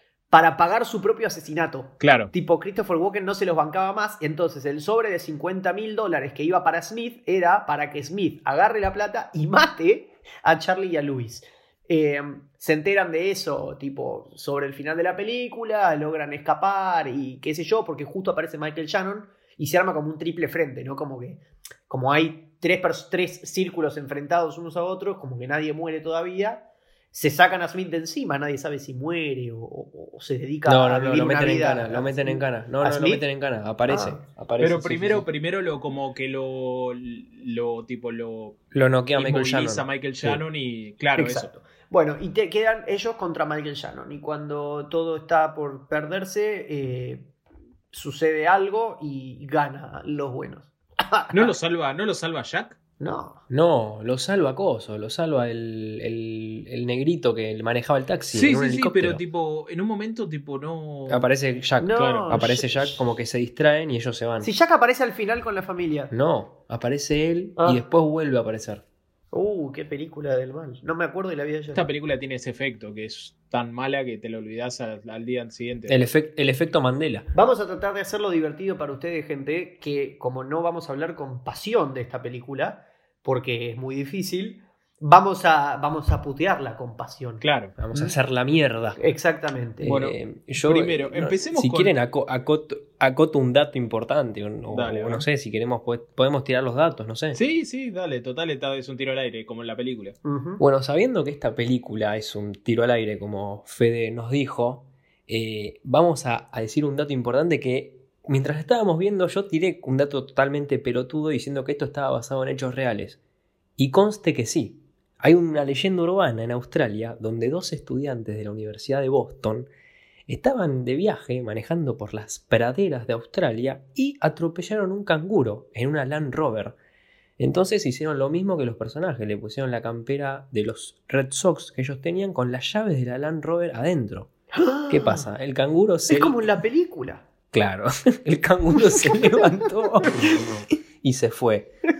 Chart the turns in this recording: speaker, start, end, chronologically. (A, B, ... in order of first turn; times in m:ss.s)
0:00.3-0:33.2 A
0:02.0-0:02.3 B
0:30.6-0:35.2 C
0:33.9-0:34.2 A
0:34.6-0:38.6 B
0:38.7-0:40.4 C
0:39.1-0:41.5 B
0:41.2-0:47.3 A
0:47.9-0:51.5 A
0:51.3-0:52.8 B
0:53.0-0:53.4 A
0:53.5-0:59.2 C
0:58.3-1:01.3 B
1:01.1-1:04.5 C
1:01.8-1:03.0 A
1:02.0-1:02.3 B
1:04.4-1:06.1 A
1:06.1-1:08.8 C
1:07.6-1:07.8 A
1:09.3-1:11.8 A
1:11.7-1:16.0 B
1:15.9-1:17.3 C
1:17.3-1:28.1 A
1:27.4-1:27.8 B
1:27.8-1:29.0 C
1:29.0-1:29.9 A
1:29.8-1:37.4 C
1:29.8-1:31.9 B
1:34.7-1:35.3 B
1:37.3-1:40.2 B
1:40.2-1:40.6 A
1:40.6-1:53.2 C
1:53.8-1:59.7 C
2:00.3-2:06.8 C
2:07.4-2:14.3 C
2:14.5-2:15.3 A
2:14.9-2:16.4 C
2:16.1-2:17.3 A
2:17.5-2:21.7 C
2:18.9-2:19.4 A
2:20.1-2:20.5 A